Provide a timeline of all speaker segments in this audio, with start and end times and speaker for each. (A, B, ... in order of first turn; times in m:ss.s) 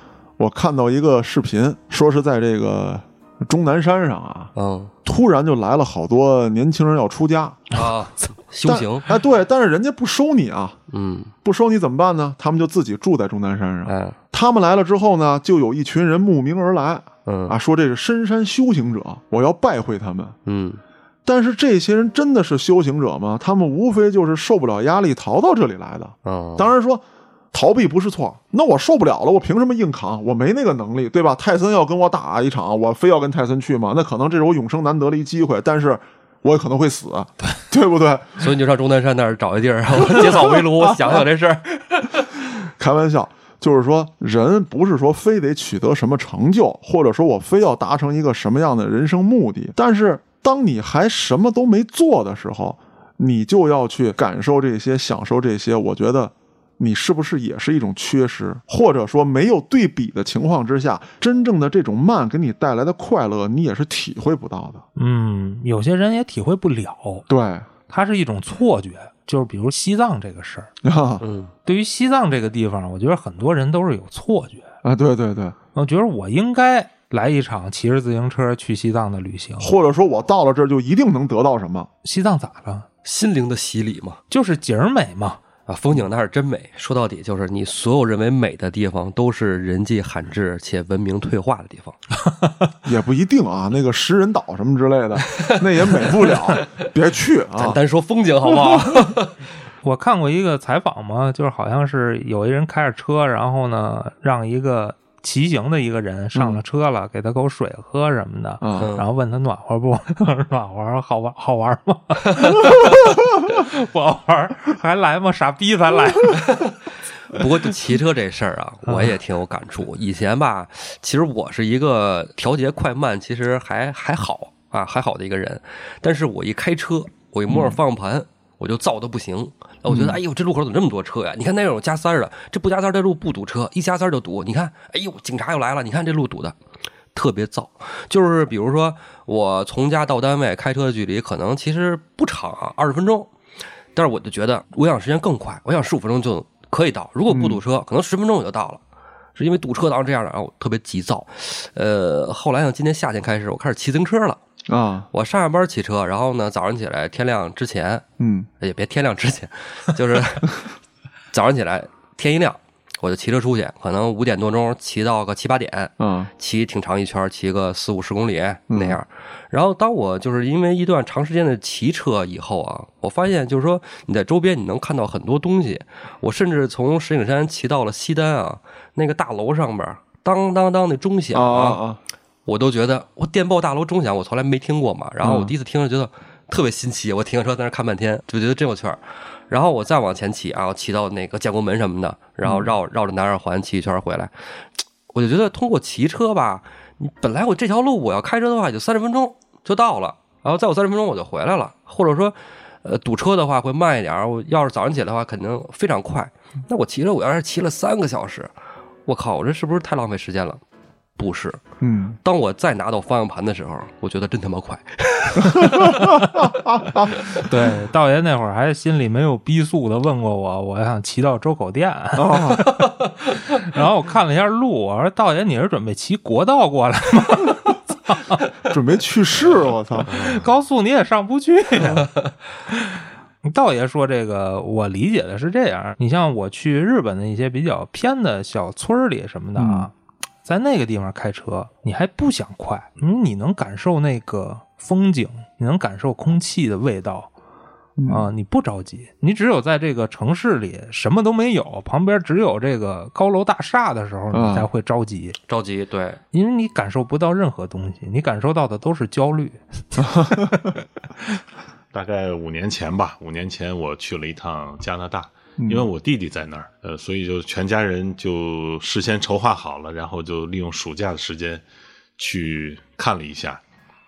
0:00.4-0:04.5 A
0:04.6-0:04.9 B
0:05.0-0:07.8 A
0:07.7-0:09.1 B
0:08.6-0:10.8 A
0:10.9-0:11.3 B
0:11.4-0:20.4 A
0:13.9-0:14.2 B
0:17.2-0:17.6 B
0:20.4-0:20.8 B
0:21.2-0:38.5 A
0:26.2-0:26.7 B
0:38.4-0:42.3 B
0:40.0-0:41.2 A
0:42.8-1:04.8 A
1:05.0-1:07.2 C
1:07.3-1:07.7 A
1:07.9-1:10.7 C
1:10.8-1:11.2 A
1:11.2-1:11.5 B
1:11.6-1:14.7 C
1:14.8-1:15.5 A
1:15.7-1:19.7 C
1:19.6-1:21.9 A
1:22.0-1:22.9 C
1:23.0-1:24.2 B
1:24.3-1:25.4 C
1:25.7-1:32.0 B
1:32.8-1:37.8 A
1:35.3-1:36.9 B
1:37.5-1:39.3 B
1:38.5-1:38.9 A
1:39.8-1:56.7 C
1:48.6-1:48.9 A
1:48.8-1:49.1 B
1:57.3-2:16.5 B
1:58.9-1:59.1 C
2:07.5-2:07.8 A
2:09.9-2:10.2 A
2:17.1-2:23.3 B
2:23.9-2:28.8 B
2:27.3-2:27.6 A
2:29.4-2:34.4 B
2:34.7-2:35.1 A
2:35.1-2:38.0 B
2:38.2-2:38.5 A
2:38.6-2:40.7 B
2:41.3-3:01.8 B
2:46.0-2:46.3 A
2:48.7-2:49.0 A
3:01.3-3:02.0 A
3:02.4-3:14.3 B
3:05.2-3:05.5 A
3:12.4-3:12.7 A
3:15.1-3:28.5 B
3:29.0-3:30.6 B
3:31.2-3:31.6 B
3:31.8-3:32.2 A
3:32.2-3:36.0 B
3:35.4-3:37.2 A
3:36.0-3:36.5 C
3:37.4-3:48.4 C
3:42.2-3:42.7 A
3:48.7-3:50.2 A
3:50.0-3:52.1 C
3:51.8-3:52.0 A
3:52.8-3:59.9 C
3:59.6-3:59.9 A
4:00.4-4:07.3 C
4:08.0-4:08.3 A
4:08.1-4:15.4 C
4:14.3-4:14.7 A
4:15.5-4:16.2 B
4:16.3-4:20.7 C
4:20.0-4:20.4 A
4:21.9-4:31.6 D
4:25.6-4:25.9 A
4:32.2-4:33.6 D